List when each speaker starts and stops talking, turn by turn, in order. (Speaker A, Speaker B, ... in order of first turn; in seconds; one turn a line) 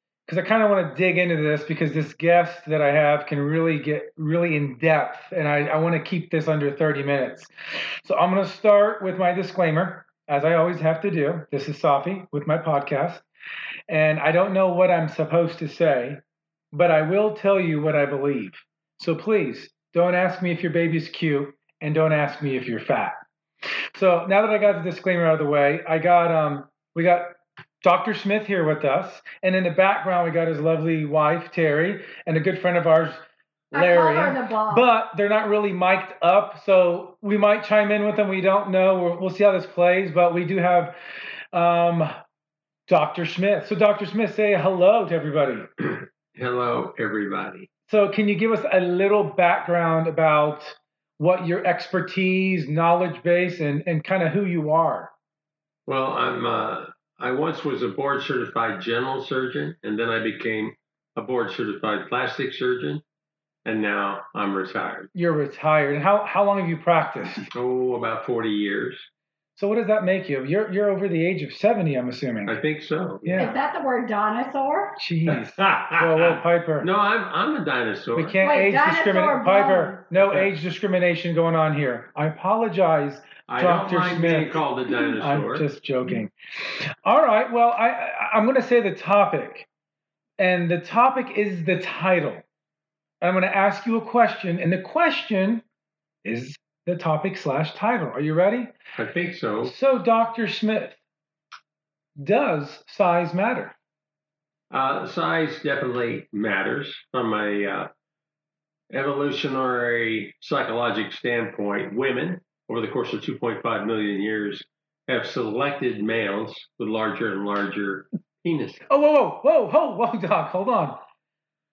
Speaker A: 0.3-13.2
Speaker A: 13.9-16.2
Speaker A: 16.7-23.2
Speaker A: 23.9-33.2
Speaker B: 33.7-34.9
Speaker A: 33.7-41.0
Speaker A: 41.5-42.1
Speaker A: 42.9-45.7
Speaker C: 45.8-47.7
Speaker A: 47.9-55.1
Speaker C: 55.9-63.0
Speaker C: 63.6-65.1
Speaker A: 65.2-67.5
Speaker C: 67.5-69.1
Speaker A: 69.6-72.5
Speaker C: 72.5-73.5
Speaker A: 73.2-73.6
Speaker B: 73.4-75.0
Speaker A: 75.0-76.9
Speaker C: 75.3-78.4
Speaker A: 78.2-84.6
Speaker B: 78.4-80.0
Speaker C: 80.2-80.5
Speaker C: 83.5-85.7
Speaker A: 85.2-89.7
Speaker A: 90.4-92.4
Speaker A: 93.2-95.6
Speaker A: 96.2-98.7
Speaker C: 99.0-99.7
Speaker A: 99.6-101.0
Speaker A: 102.2-103.7
Speaker C: 104.7-107.9
Speaker C: 108.9-118.8
Speaker A: 118.9-121.0